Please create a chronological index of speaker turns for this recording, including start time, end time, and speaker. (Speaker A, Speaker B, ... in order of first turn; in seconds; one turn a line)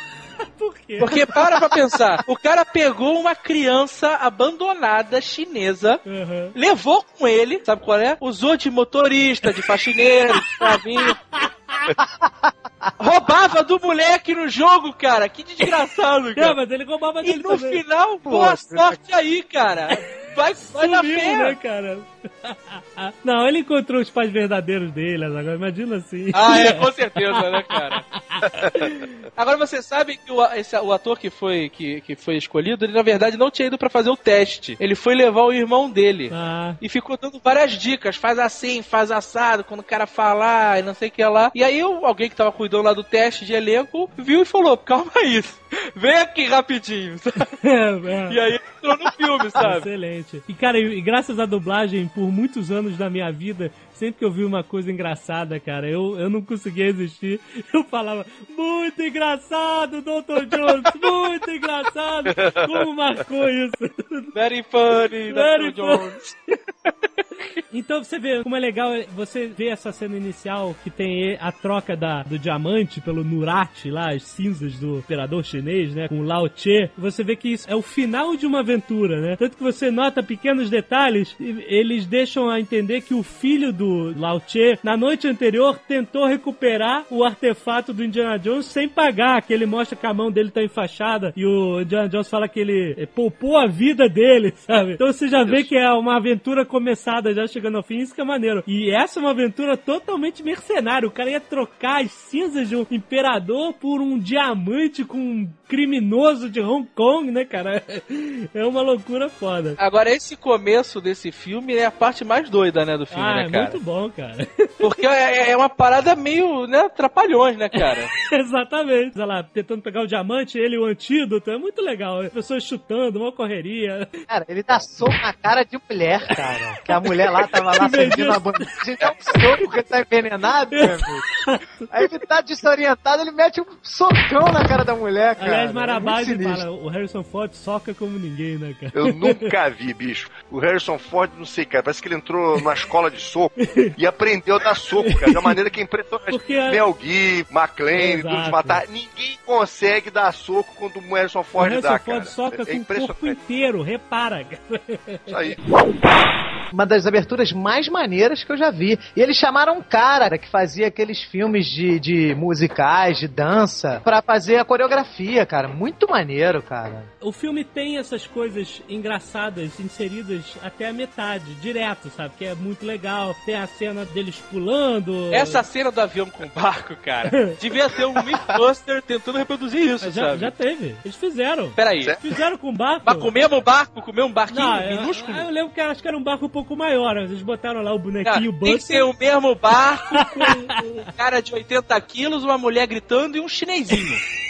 Speaker A: 0.5-1.5
Speaker B: 1.0-6.0
Speaker A: 6.1-6.5
Speaker B: 6.5-11.2
Speaker A: 11.3-11.9
Speaker C: 12.0-12.5
Speaker B: 13.0-16.6
Speaker A: 16.4-17.8
Speaker B: 17.2-21.6
Speaker C: 18.3-19.0
Speaker A: 20.6-29.1
Speaker B: 26.3-28.1
Speaker B: 29.4-47.5
Speaker A: 36.3-36.8
Speaker A: 47.6-48.4
Speaker B: 48.3-49.9
Speaker A: 49.6-64.3
Speaker D: 62.3-62.8
Speaker B: 64.3-66.3
Speaker A: 65.3-66.1
Speaker A: 67.7-109.8
Speaker D: 95.4-95.7
Speaker B: 109.8-113.8
Speaker A: 113.1-114.8
Speaker B: 114.8-118.1
Speaker A: 118.2-124.1
Speaker C: 124.3-131.3
Speaker A: 127.4-128.7
Speaker A: 130.7-131.9
Speaker C: 131.9-136.6
Speaker A: 135.4-139.5
Speaker D: 138.9-153.4
Speaker A: 143.6-143.9
Speaker A: 145.0-145.6
Speaker A: 146.3-146.8
Speaker A: 148.0-148.8
Speaker A: 151.6-155.6
Speaker D: 155.3-155.6
Speaker C: 156.7-167.1
Speaker A: 167.2-175.6
Speaker B: 175.3-180.5
Speaker A: 180.0-183.3
Speaker B: 181.8-182.2
Speaker B: 183.1-185.5
Speaker A: 184.5-189.1
Speaker B: 188.2-194.2
Speaker A: 190.2-191.1